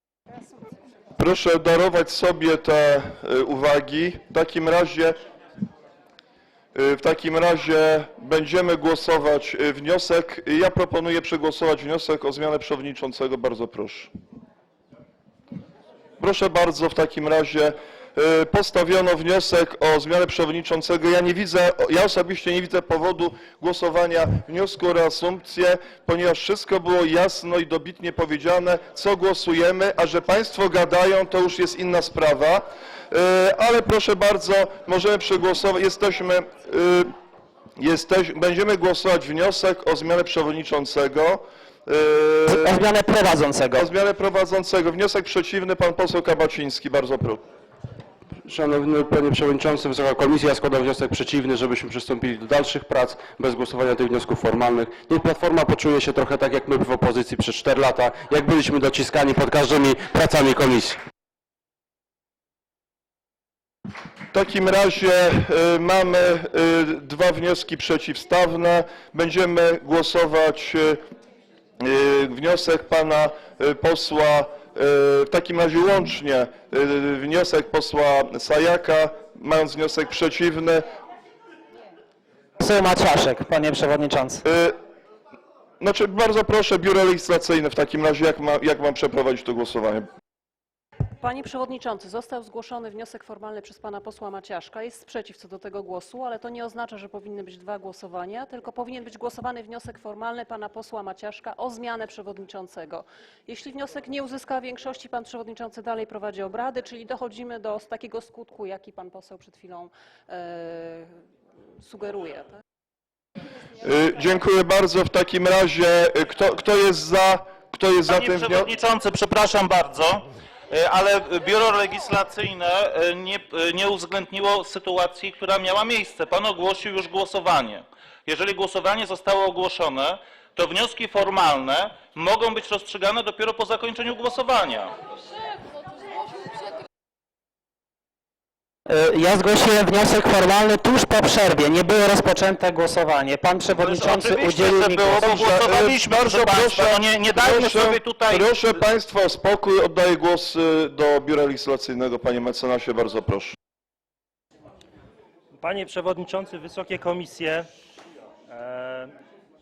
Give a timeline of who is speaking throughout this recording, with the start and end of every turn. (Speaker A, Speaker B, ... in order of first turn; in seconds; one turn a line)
Speaker A: 1.2-5.2
Speaker A: 6.8-14.1
Speaker A: 16.2-37.1
Speaker A: 37.8-42.8
Speaker B: 42.5-43.9
Speaker A: 43.8-47.4
Speaker C: 48.5-61.0
Speaker A: 64.3-71.0
Speaker A: 71.8-80.8
Speaker B: 82.6-84.5
Speaker A: 84.5-84.8
Speaker A: 85.8-90.1
Speaker D: 91.2-111.1
Speaker D: 111.8-112.6
Speaker A: 113.8-118.7
Speaker E: 118.0-134.9
Speaker B: 138.9-145.5
Speaker E: 143.8-148.7
Speaker A: 145.3-153.6
Speaker F: 155.6-157.7
Speaker F: 158.5-159.1